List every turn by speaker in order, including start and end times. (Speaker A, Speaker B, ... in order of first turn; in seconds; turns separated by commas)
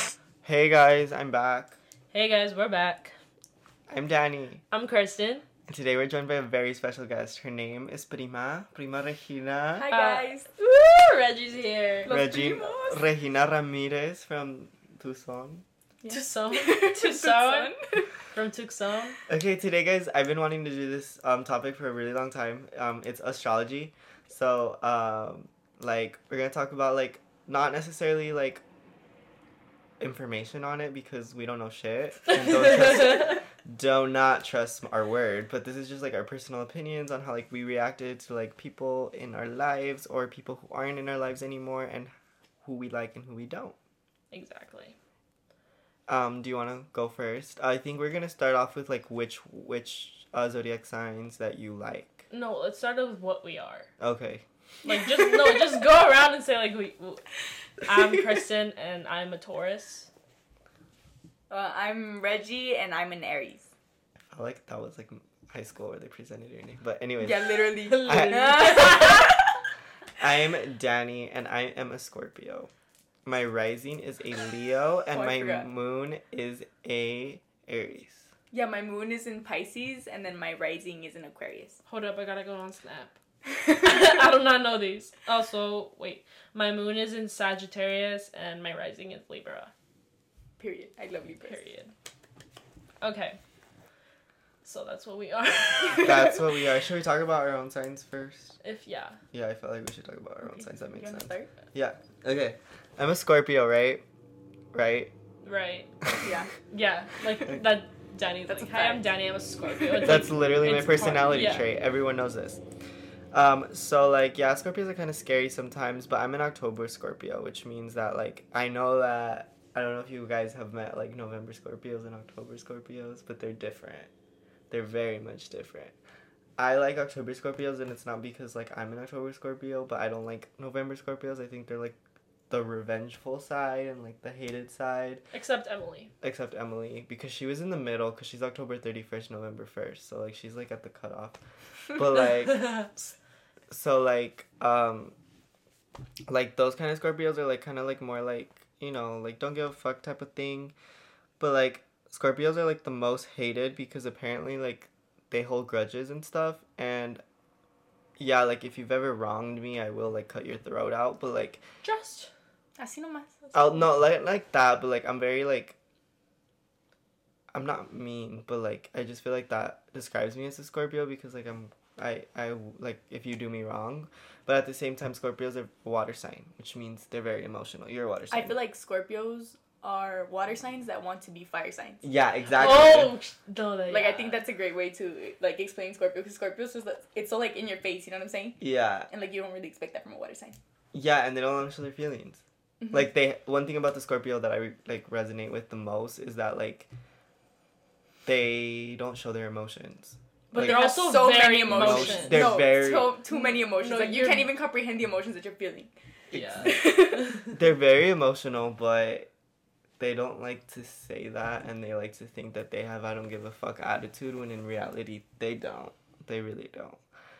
Speaker A: 0.4-1.8, Speaker B: 2.1-3.1, Speaker A: 3.9-4.6, Speaker B: 4.7-5.4, Speaker A: 5.7-9.9, Speaker C: 9.8-10.5, Speaker B: 9.9-12.1, Speaker C: 12.1-13.0, Speaker A: 12.1-15.6, Speaker C: 16.0-18.1, Speaker B: 16.1-19.2, Speaker A: 19.3-28.6, Speaker A: 30.0-42.1, Speaker B: 33.0-33.3, Speaker A: 42.6-43.8, Speaker B: 44.3-45.0, Speaker A: 46.1-52.2, Speaker B: 52.3-53.9, Speaker A: 54.0-54.4, Speaker B: 54.9-60.1, Speaker C: 61.5-63.7, Speaker A: 64.2-68.9, Speaker C: 67.2-69.5, Speaker B: 67.8-69.2, Speaker A: 70.2-72.7, Speaker A: 73.2-78.3, Speaker C: 75.1-75.7, Speaker C: 78.5-81.8, Speaker B: 81.9-89.7, Speaker C: 90.6-91.6, Speaker B: 91.4-91.9, Speaker B: 93.0-93.4, Speaker B: 94.6-96.4, Speaker A: 96.0-98.6, Speaker B: 98.6-99.2, Speaker A: 99.3-104.0, Speaker C: 100.9-101.5, Speaker A: 104.7-105.1, Speaker B: 105.4-105.9, Speaker C: 106.2-106.5, Speaker B: 106.7-111.7, Speaker C: 108.5-109.1, Speaker A: 110.0-112.6, Speaker A: 113.3-124.1, Speaker A: 124.7-125.9, Speaker A: 126.6-132.0, Speaker A: 132.5-135.2, Speaker B: 135.3-136.1, Speaker A: 136.2-141.4, Speaker A: 141.9-143.1, Speaker A: 143.7-145.1, Speaker A: 146.3-150.7, Speaker A: 151.4-157.2, Speaker A: 158.2-161.6, Speaker B: 161.8-162.3, Speaker C: 162.8-163.4, Speaker A: 163.5-165.8, Speaker A: 167.5-178.6, Speaker C: 178.3-182.1, Speaker A: 182.0-183.2, Speaker B: 182.6-184.4, Speaker C: 183.9-190.6, Speaker A: 188.6-189.1, Speaker A: 190.9-196.9, Speaker C: 192.8-193.1, Speaker A: 198.2-200.9, Speaker B: 200.5-202.8, Speaker C: 200.6-205.9, Speaker A: 201.6-203.2, Speaker B: 203.3-204.5, Speaker A: 206.3-206.7, Speaker B: 206.3-207.6, Speaker C: 206.6-207.3, Speaker A: 207.5-209.3, Speaker A: 210.0-217.0